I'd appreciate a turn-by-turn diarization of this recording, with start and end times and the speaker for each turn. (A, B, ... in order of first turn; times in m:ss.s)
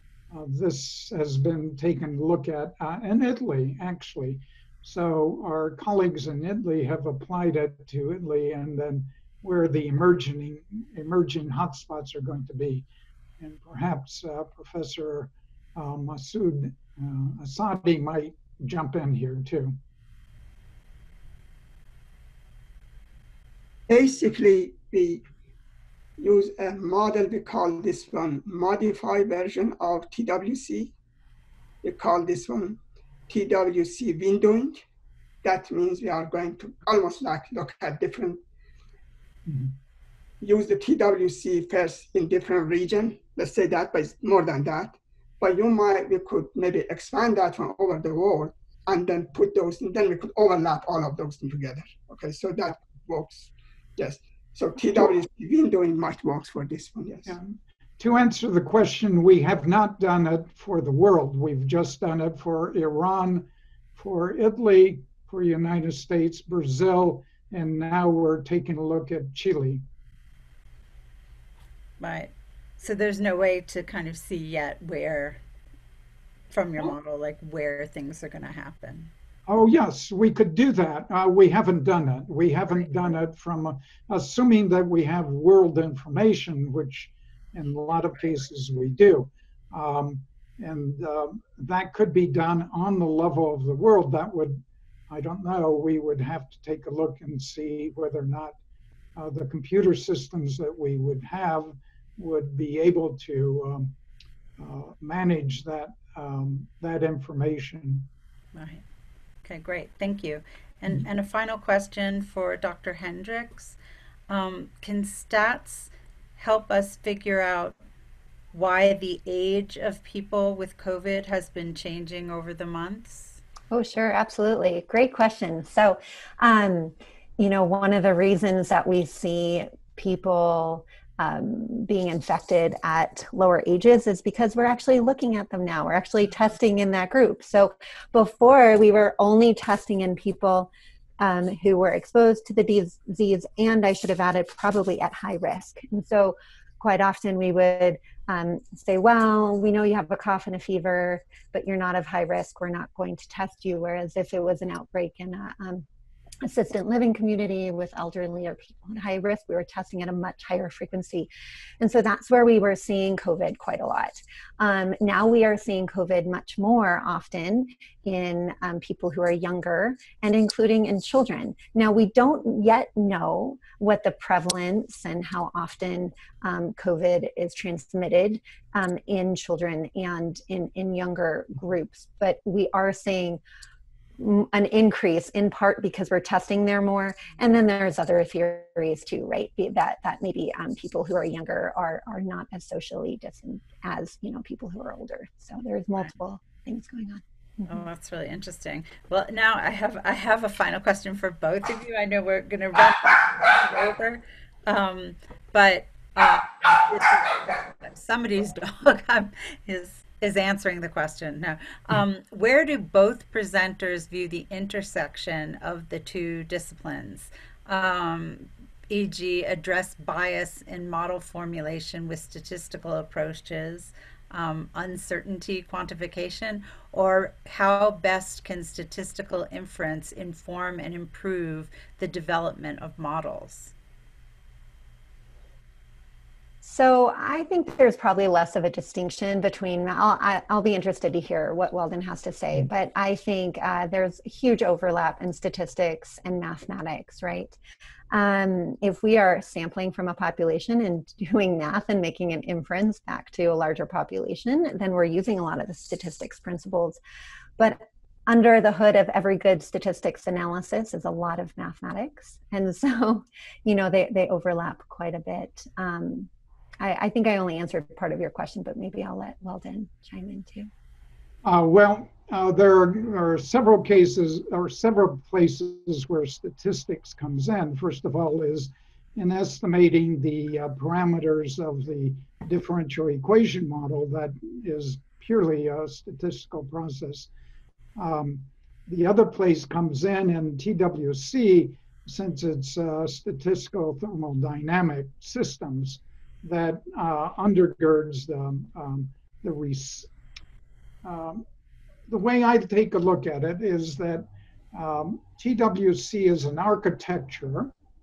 0:00.3-0:12.9 A
0:13.4-0:19.8 A
0:23.9-0:25.2 B
0:26.2-0:30.9 B
0:31.8-0:34.8 B
0:35.4-0:38.4 B
0:39.5-0:39.7 A
0:40.4-0:57.3 B
0:57.3-1:09.8 A
1:12.0-1:15.4 C
1:16.5-1:19.1 C
1:19.5-1:38.6 A
1:39.2-1:43.9 A
1:44.6-1:48.1 A
1:48.5-1:48.8 C
1:49.4-1:53.8 C
1:54.3-1:57.8 C
1:58.5-2:03.4 C
2:03.7-2:35.8 D
2:36.4-3:03.4 D
3:04.2-3:17.8 D
3:17.7-3:53.7 C
3:56.6-4:07.6 D
4:08.1-4:17.0 D
4:17.6-4:30.7 D
4:31.4-4:47.3 A
4:48.0-5:00.1 A
5:01.0-5:01.4 A
5:02.1-5:07.7 A